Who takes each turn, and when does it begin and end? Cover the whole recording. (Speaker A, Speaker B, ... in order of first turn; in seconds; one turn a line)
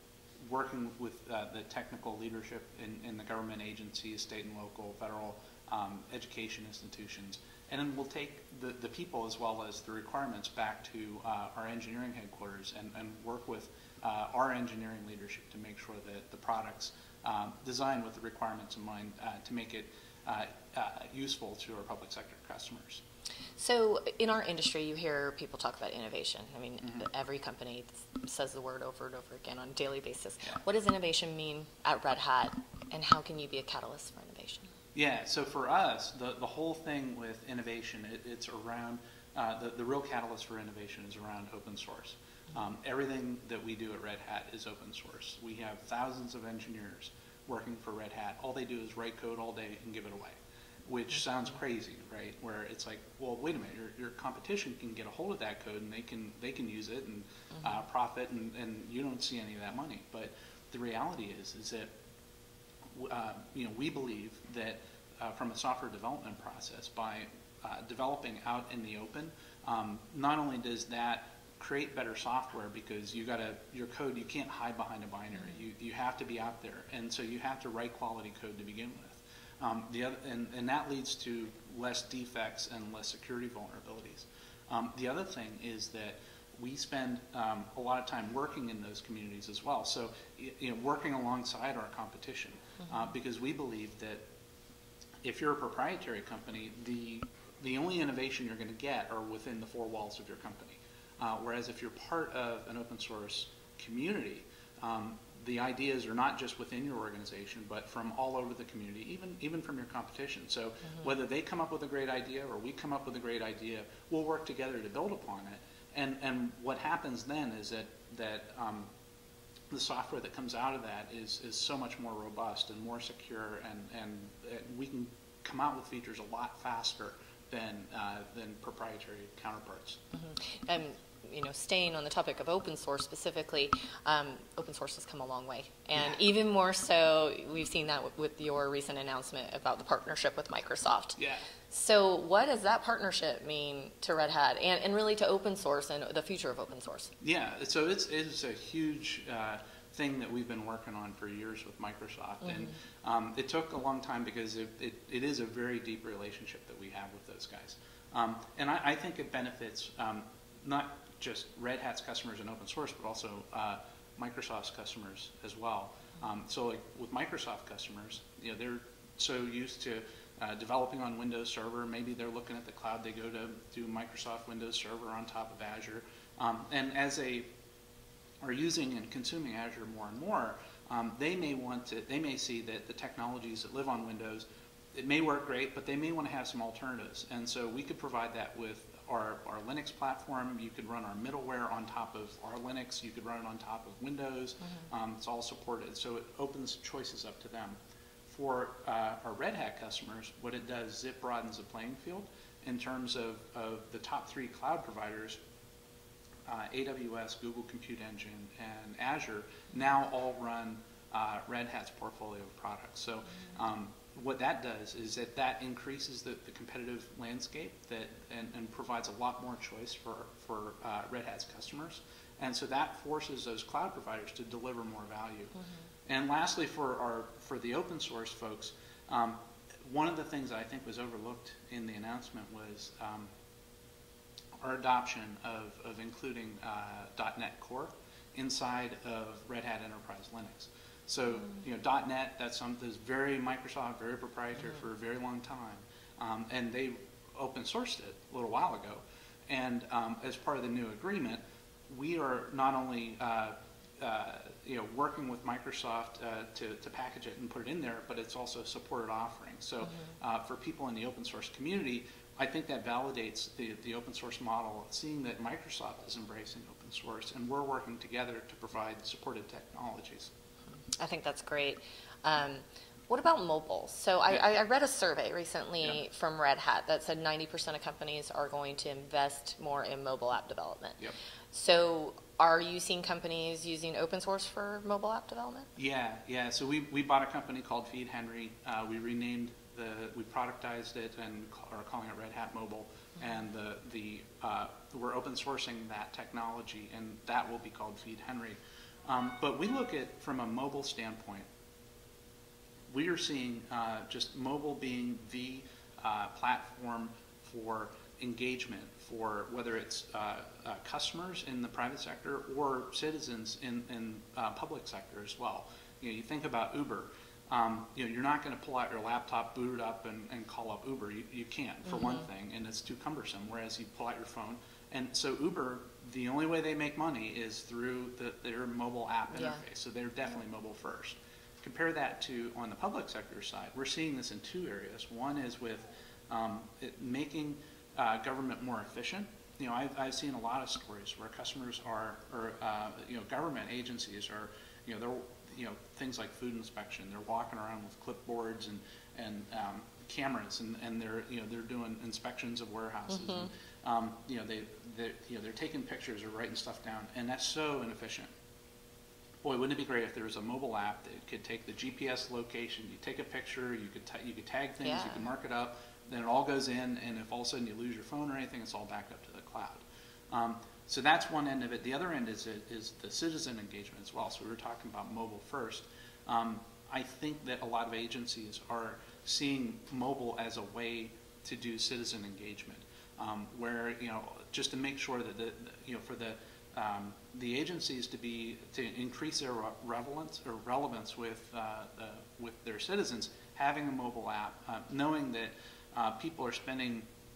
Speaker A: 0.4-23.0
Speaker B: 23.6-34.7
Speaker A: 34.9-61.9
Speaker A: 63.0-94.2
Speaker A: 95.2-118.9
Speaker A: 119.7-130.0
Speaker B: 130.1-141.2
Speaker A: 141.2-141.4
Speaker B: 141.7-147.1
Speaker A: 147.2-177.5
Speaker B: 152.4-152.7
Speaker A: 178.4-205.4
Speaker A: 206.5-225.5
Speaker B: 225.6-225.8
Speaker A: 226.1-233.3
Speaker A: 234.6-270.3
Speaker B: 259.8-260.1
Speaker B: 271.0-281.0
Speaker B: 281.5-285.7
Speaker A: 285.8-301.5
Speaker A: 302.9-358.3
Speaker B: 321.9-322.3
Speaker B: 329.3-329.6
Speaker B: 353.1-353.5
Speaker A: 359.4-397.1
Speaker B: 364.8-365.3